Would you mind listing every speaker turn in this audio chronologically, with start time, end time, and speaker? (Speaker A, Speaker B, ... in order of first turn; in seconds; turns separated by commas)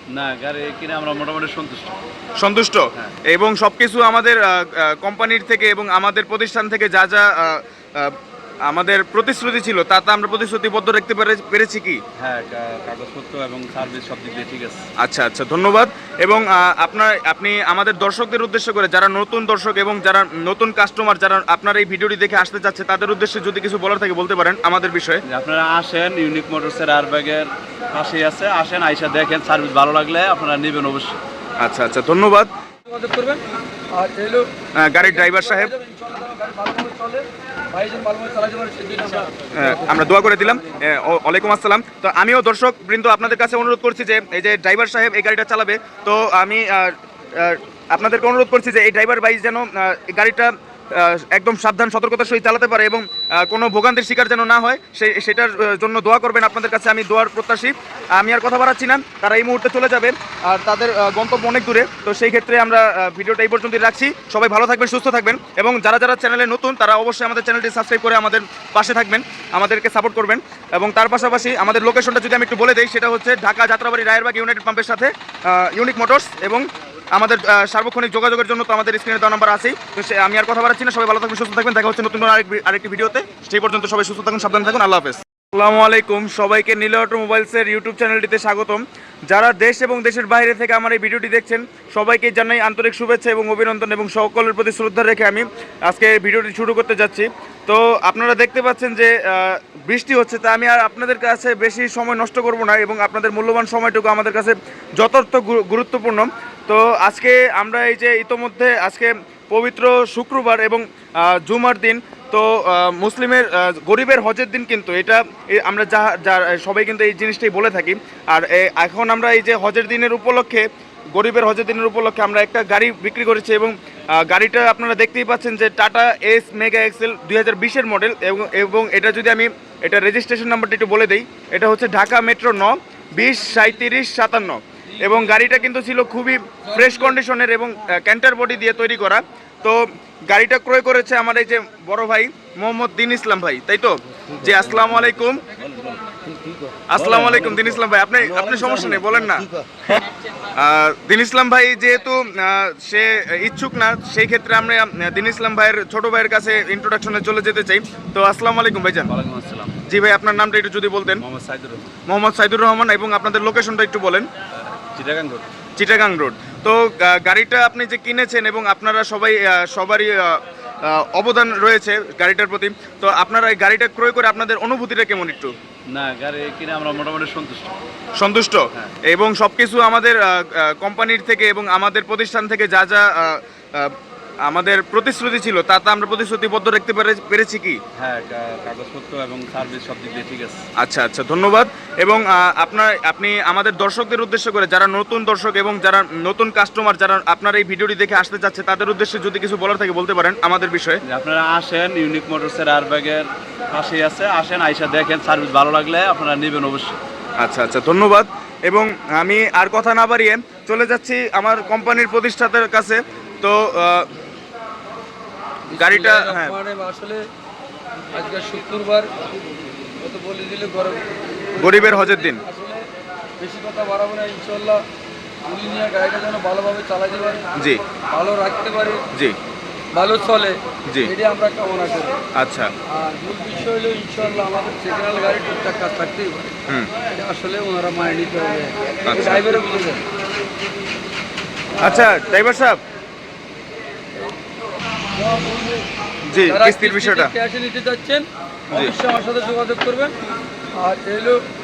Speaker A: 0.1-2.0, Speaker B: 2.4-12.0, Speaker A: 12.2-14.8, Speaker B: 15.0-25.2, Speaker A: 25.3-31.2, Speaker B: 31.6-32.5, Speaker C: 32.9-40.7, Speaker B: 34.8-35.7, Speaker B: 39.5-145.4, Speaker C: 134.9-135.5, Speaker C: 136.7-137.1, Speaker A: 144.5-149.1, Speaker B: 146.9-149.5, Speaker B: 150.5-159.1, Speaker A: 159.1-159.9, Speaker B: 159.9-161.2, Speaker A: 161.2-161.9, Speaker B: 162.1-164.3, Speaker A: 164.6-165.5, Speaker B: 165.8-175.5, Speaker A: 175.9-177.8, Speaker B: 178.2-187.8, Speaker A: 188.0-190.6, Speaker B: 190.8-201.0, Speaker A: 201.1-207.0, Speaker B: 207.4-214.1, Speaker C: 215.7-217.3, Speaker B: 215.8-216.6, Speaker C: 218.1-219.1, Speaker C: 220.0-222.9, Speaker B: 221.6-222.4, Speaker C: 223.4-224.8, Speaker C: 225.4-227.5, Speaker B: 227.6-227.8, Speaker C: 228.1-229.1, Speaker C: 229.9-232.2, Speaker B: 230.9-231.1, Speaker B: 232.3-232.7, Speaker C: 232.9-240.0, Speaker B: 239.0-239.4, Speaker C: 241.8-242.2, Speaker B: 241.8-242.8, Speaker C: 245.1-245.9, Speaker B: 246.3-247.3, Speaker C: 246.4-250.2, Speaker C: 250.7-251.4